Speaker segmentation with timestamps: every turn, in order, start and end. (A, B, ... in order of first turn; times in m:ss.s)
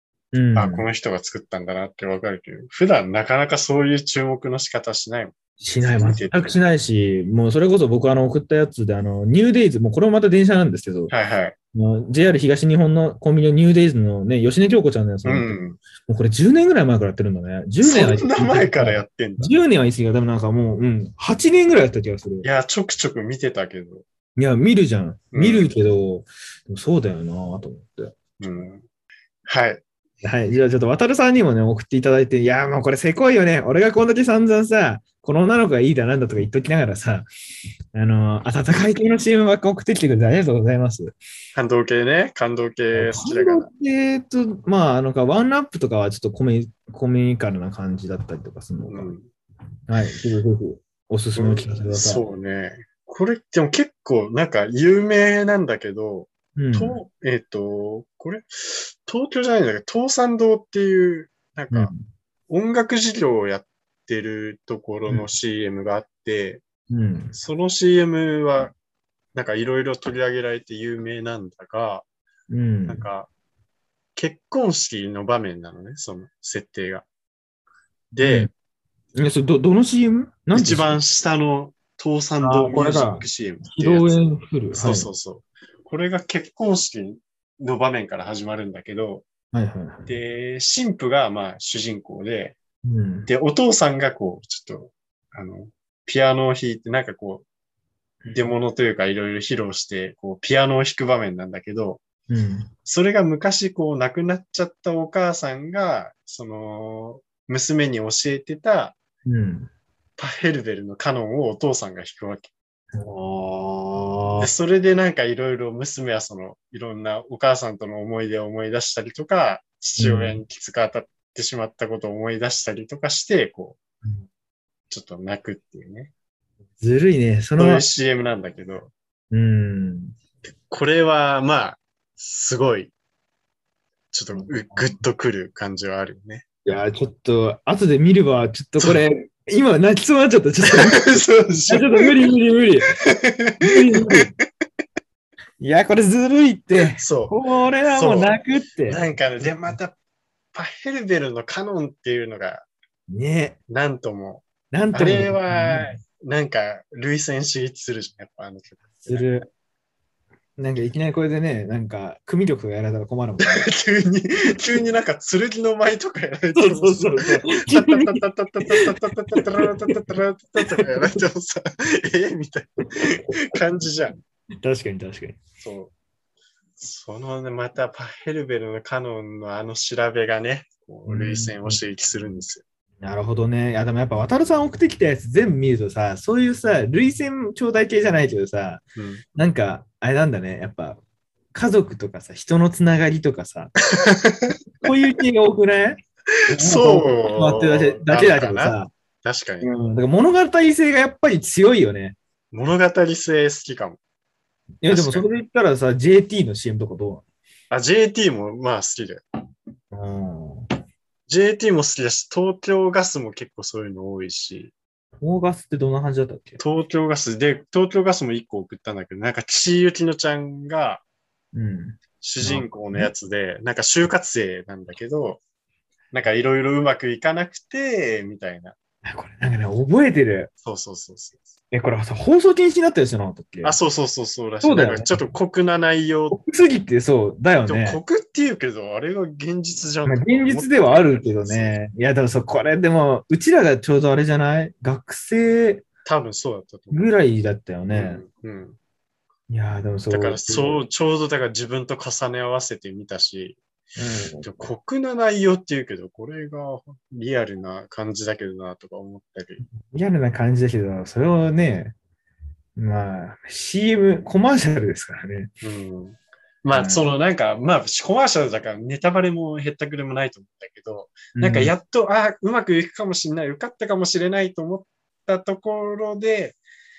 0:00.3-0:00.9 A
0:00.5-0:06.6 B
0:05.6-0:11.1 A
0:11.1-0:11.6 B
0:11.7-0:22.5 A
0:15.2-0:15.8 B
0:17.8-0:19.5 B
0:22.4-0:24.0 B
0:24.4-0:28.2 A
0:25.3-0:25.7 B
0:28.4-0:28.8 B
0:29.4-0:29.8 B
0:30.2-0:37.3 A
0:37.9-0:41.2 A
0:41.5-0:43.7 B
0:42.9-0:49.1 A
0:48.9-0:49.3 B
0:49.9-0:52.2 A
0:51.4-1:01.9 B
0:56.6-0:57.0 A
1:01.7-1:02.0 A
1:02.5-1:06.6 B
1:06.9-1:07.3 A
1:07.3-1:08.7 B
1:09.3-1:12.0 B
1:12.5-1:13.1 A
1:12.9-1:13.3 B
1:14.2-1:17.0 B
1:18.1-1:18.5 B
1:18.2-1:18.5 A
1:19.2-1:21.0 A
1:20.5-1:24.2 B
1:22.4-1:25.1 A
1:24.7-1:29.2 B
1:29.5-1:30.1 A
1:30.1-1:32.6 B
1:32.8-1:33.3 A
1:33.3-1:37.4 B
1:38.3-1:42.0 B
1:42.3-1:42.7 A
1:42.8-1:49.0 B
1:49.2-1:49.7 A
1:50.2-1:52.5 B
1:52.9-1:54.5 A
1:54.4-2:03.8 B
2:00.0-2:00.4 A
2:04.9-2:06.1 B
2:06.8-2:07.8 A
2:07.6-2:08.9 B
2:09.3-2:10.1 A
2:10.6-2:12.9 B
2:14.1-2:16.4 B
2:14.3-2:15.0 A
2:16.6-2:23.0 A
2:20.7-2:22.1 B
2:23.0-2:24.2 B
2:23.6-2:24.3 A
2:25.6-2:29.8 A
2:26.9-2:27.3 B
2:27.8-2:29.9 B
2:30.5-2:32.6 B
2:33.1-2:33.6 A
2:33.7-2:39.3 B
2:34.7-2:36.0 A
2:39.0-2:39.5 A
2:40.6-2:43.7 A
2:43.4-2:54.2 B
2:46.6-2:50.0 A
2:54.6-2:55.4 A
2:55.6-2:55.9 B
2:56.8-3:02.6 B
3:01.1-3:02.3 A
3:03.0-3:08.8 A
3:09.0-3:09.2 B
3:09.4-3:11.0 A
3:11.5-3:13.7 A
3:13.9-3:14.5 B
3:14.8-3:18.9 A
3:16.6-3:19.7 B
3:19.6-3:22.2 A
3:22.5-3:24.0 B
3:24.8-3:27.2 A
3:24.9-3:25.2 B
3:27.7-3:29.2 B
3:29.9-3:30.7 A
3:31.3-3:34.7 B
3:35.2-3:36.6 A
3:36.6-3:41.0 B
3:41.5-3:43.1 A
3:42.2-3:45.4 B
3:46.1-3:48.7 B
3:49.0-3:50.5 A
3:50.6-3:51.5 B
3:51.7-3:53.8 A
3:53.6-3:56.4 B
3:54.6-3:55.3 A
3:56.3-3:58.0 A
3:57.7-4:01.8 B
4:00.0-4:05.9 A
4:06.0-4:07.0 B
4:06.9-4:08.2 A
4:07.9-4:08.8 B
4:09.5-4:10.8 A
4:10.1-4:13.6 B
4:14.0-4:14.7 A
4:14.4-4:19.6 B
4:19.8-4:21.9 A
4:22.8-4:25.5 A
4:25.6-4:36.6 B
4:26.7-4:27.1 A
4:31.3-4:31.7 A